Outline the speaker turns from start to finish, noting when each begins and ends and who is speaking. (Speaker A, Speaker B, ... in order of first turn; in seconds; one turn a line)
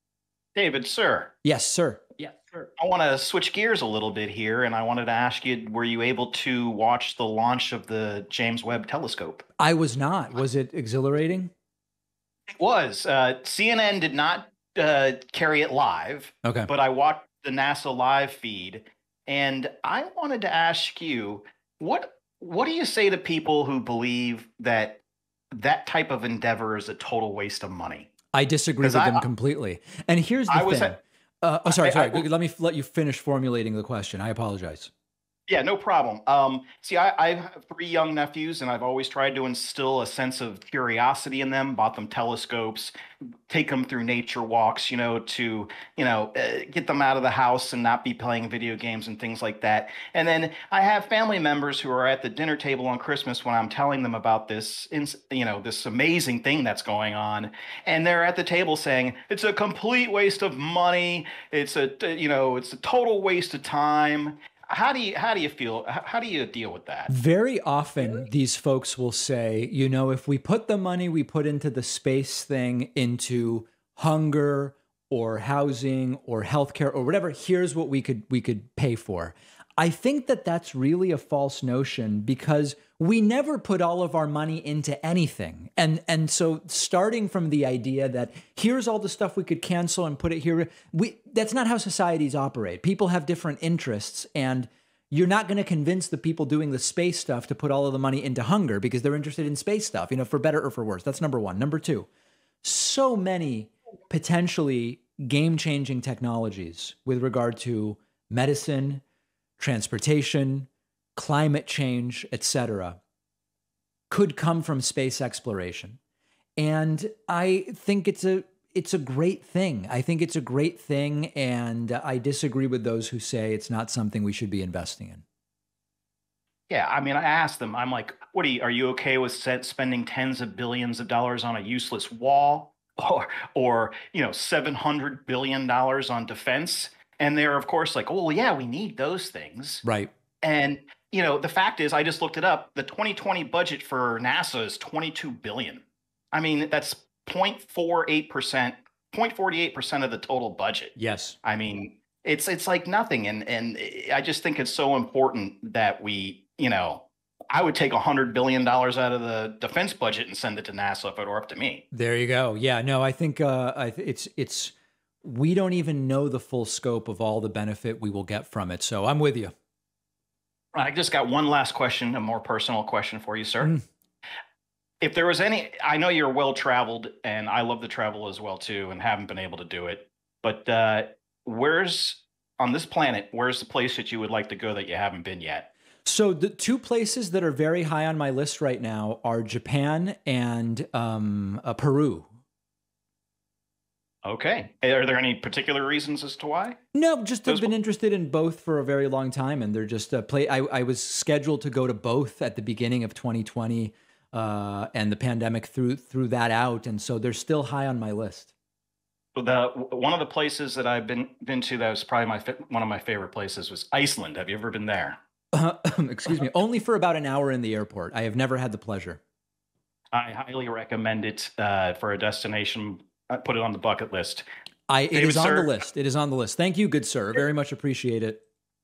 Speaker A: 0.6-1.3
Speaker B: 1.4-2.2
Speaker A: 2.8-9.4
Speaker B: 9.6-11.5
Speaker A: 12.6-25.0
Speaker B: 16.4-16.7
Speaker A: 25.5-28.1
Speaker B: 28.3-34.9
Speaker A: 28.8-29.3
Speaker A: 30.5-30.9
Speaker A: 31.7-32.2
Speaker A: 35.5-42.9
Speaker A: 43.5-67.1
Speaker B: 67.1-102.1
Speaker B: 102.6-109.0
Speaker B: 109.6-113.0
Speaker B: 114.1-116.0
Speaker B: 116.6-125.2
Speaker A: 126.7-139.8
Speaker B: 139.8-140.1
Speaker A: 140.4-161.8
Speaker B: 151.0-151.4
Speaker B: 161.9-169.5
Speaker A: 170.7-173.7
Speaker A: 175.0-185.7
Speaker B: 186.1-192.3
Speaker A: 194.2-196.8
Speaker B: 196.9-208.5
Speaker A: 197.5-197.7
Speaker A: 209.3-215.2
Speaker B: 215.5-219.2
Speaker A: 220.1-224.4
Speaker B: 224.9-228.4
Speaker A: 225.1-225.7